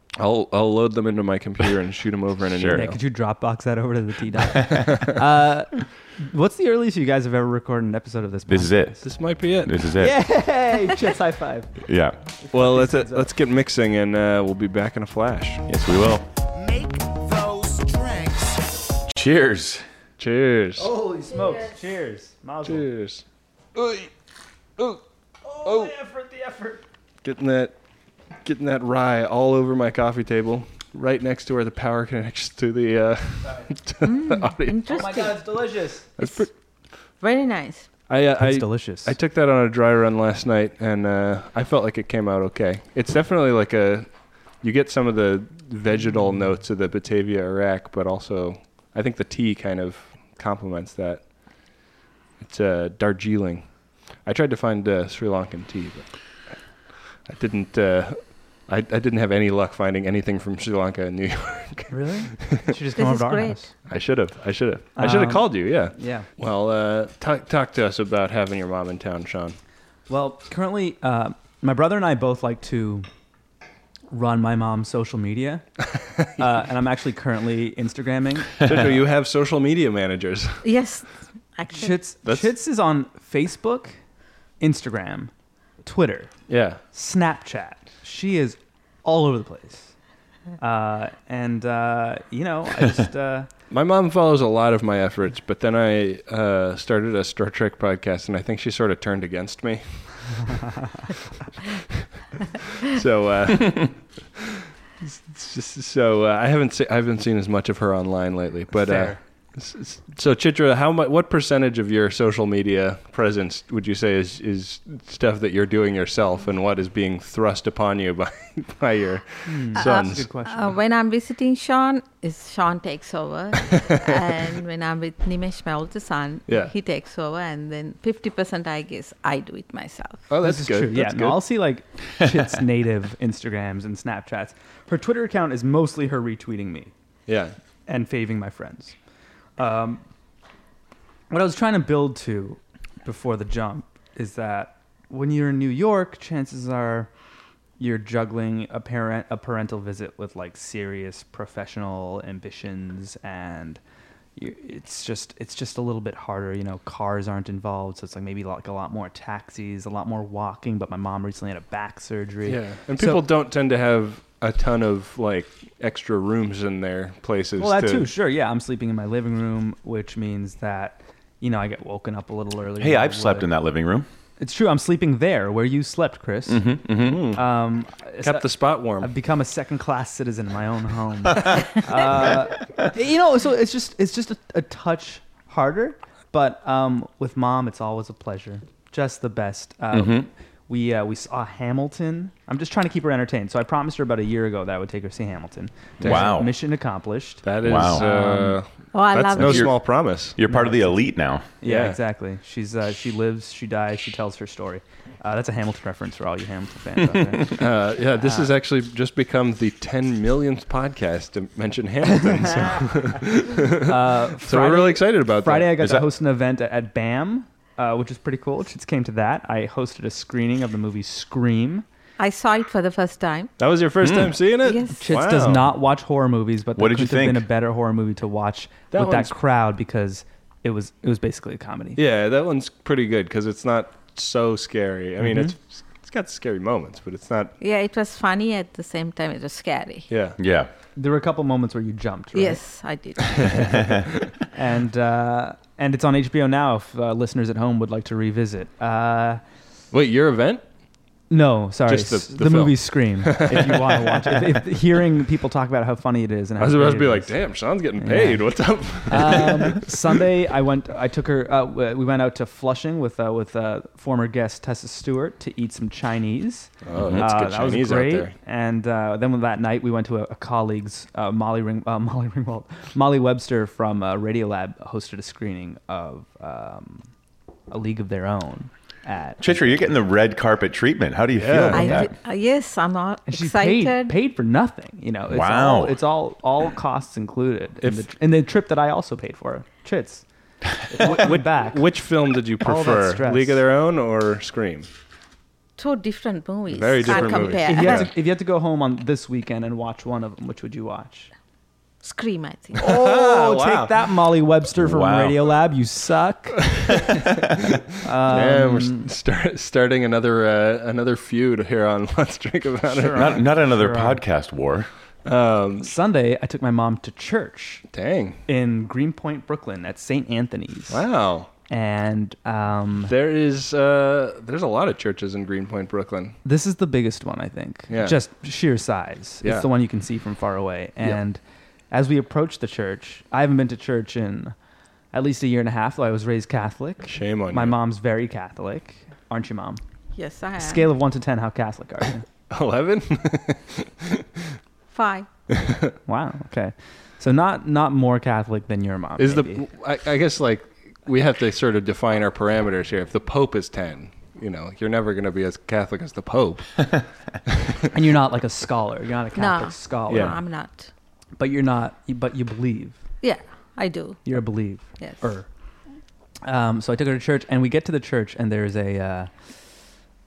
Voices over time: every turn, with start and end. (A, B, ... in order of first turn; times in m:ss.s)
0:00.2-0:03.0 A
0:02.5-0:02.9 B
0:02.7-0:09.0 C
0:04.6-0:04.9 B
0:08.5-0:10.2 B
0:09.0-0:09.8 A
0:10.0-0:11.8 C
0:11.8-0:12.2 B
0:12.4-0:13.3 C
0:12.5-0:15.6 A
0:15.7-0:16.2 B
0:16.5-0:19.0 D
0:19.1-0:19.8 B
0:20.2-0:20.9 A
0:20.8-0:22.8 C
0:22.6-0:23.2 A
0:23.7-0:24.1 A
0:25.4-0:26.8 C
0:25.6-0:25.9 A
0:27.2-0:27.8 A
0:28.4-0:35.1 A
0:34.0-0:35.4 E
0:34.9-0:36.2 C
0:36.2-0:36.5 A
0:37.2-0:37.9 E
0:38.1-0:51.8 A
0:38.4-0:39.1 C
0:52.4-0:56.3 A
0:57.2-1:02.6 A
1:01.9-1:03.7 C
1:03.0-1:03.6 E
1:03.9-1:09.6 A
1:05.0-1:06.3 C
1:10.1-1:13.0 C
1:14.1-1:15.6 C
1:16.4-1:18.6 C
1:18.6-1:20.6 A
1:20.6-1:22.0 E
1:21.7-1:24.0 C
1:24.6-1:25.3 C
1:25.8-1:26.3 C
1:26.5-1:26.8 A
1:26.9-1:29.9 C
1:30.6-1:33.5 C
1:33.7-1:40.6 A
1:41.8-1:42.0 A
1:42.8-1:44.4 A
1:45.0-2:00.2 A
1:48.7-1:49.2 C
1:59.4-2:00.7 C
1:59.7-2:10.3 E
2:10.3-2:11.4 A
2:10.4-2:16.9 C
2:17.3-2:17.5 A
2:17.9-2:18.9 C
2:19.6-2:20.0 C
2:21.3-2:27.1 C
2:27.8-2:33.8 C
2:34.4-2:43.2 C
2:42.4-2:48.1 A
2:47.6-2:53.5 C
2:52.8-2:54.1 B
2:54.4-2:56.7 C
2:56.5-2:57.4 B
2:57.3-2:58.4 C
2:58.2-2:59.1 A
2:59.0-3:18.6 C
3:09.9-3:10.3 B
3:16.0-3:16.3 A
3:16.0-3:16.5 B
3:17.4-3:20.4 A
3:17.6-3:18.4 B
3:18.9-3:19.7 E
3:19.3-3:21.5 B
3:20.5-3:20.9 C
3:21.6-3:27.6 C
3:21.6-3:22.0 A
3:27.5-3:35.8 A
3:28.2-3:28.5 C
3:33.8-3:41.8 C
3:35.8-3:36.0 B
3:42.2-3:43.5 E
3:43.6-3:45.6 A
3:44.0-3:44.4 B
3:44.6-3:45.0 E
3:44.9-3:52.0 C
3:46.8-3:47.4 B
3:48.9-3:49.3 A
3:52.0-3:57.5 A
3:55.2-3:55.5 C
3:57.6-4:00.1 E
4:00.1-4:00.4 A
4:00.4-4:00.7 B
4:01.0-4:02.6 C
4:02.3-4:03.6 E
4:03.4-4:09.4 C
4:09.9-4:10.6 A
4:11.3-4:17.4 C
4:11.9-4:14.4 A
4:16.6-4:19.9 A
4:18.0-4:18.5 C
4:19.0-4:37.1 C
4:26.8-4:28.3 A
4:26.9-4:27.2 B
4:37.7-4:39.8 C
4:39.4-4:42.1 B
4:41.4-4:42.0 A
4:41.7-4:44.2 E
4:43.3-4:50.2 C
4:45.3-4:46.0 B
4:50.9-4:51.8 C
4:50.9-4:54.9 A
4:52.6-4:53.6 C
4:55.8-4:58.1 E
4:56.7-4:58.1 A
4:57.0-5:01.3 C
5:02.0-5:02.8 E
5:02.7-5:04.0 A
5:02.8-5:06.7 C
5:04.8-5:05.4 B
5:07.7-5:13.3 A
5:08.0-5:09.1 C
5:12.9-5:14.2 C
5:13.1-5:14.9 B
5:15.2-5:15.9 A
5:15.8-5:17.8 C
5:17.9-5:18.4 A
5:18.5-5:21.0 C
5:20.9-5:21.5 A
5:21.7-5:23.1 C
5:23.0-5:26.4 A
5:26.4-5:31.4 C
5:27.9-5:28.2 A
5:29.4-5:29.7 A
5:31.9-5:34.5 C
5:35.1-5:39.8 C
5:37.0-5:37.8 A
5:40.2-5:40.9 E
5:40.6-5:42.2 C
5:42.5-5:44.2 A
5:44.9-5:45.3 E
5:45.5-5:45.9 A
5:46.0-5:49.6 C
5:49.2-5:57.0 A
5:57.9-6:00.4 C
5:59.4-6:00.9 E
6:00.1-6:00.4 A
6:01.4-6:03.0 C
6:03.2-6:04.3 E
6:04.2-6:05.5 C
6:06.4-6:09.3 C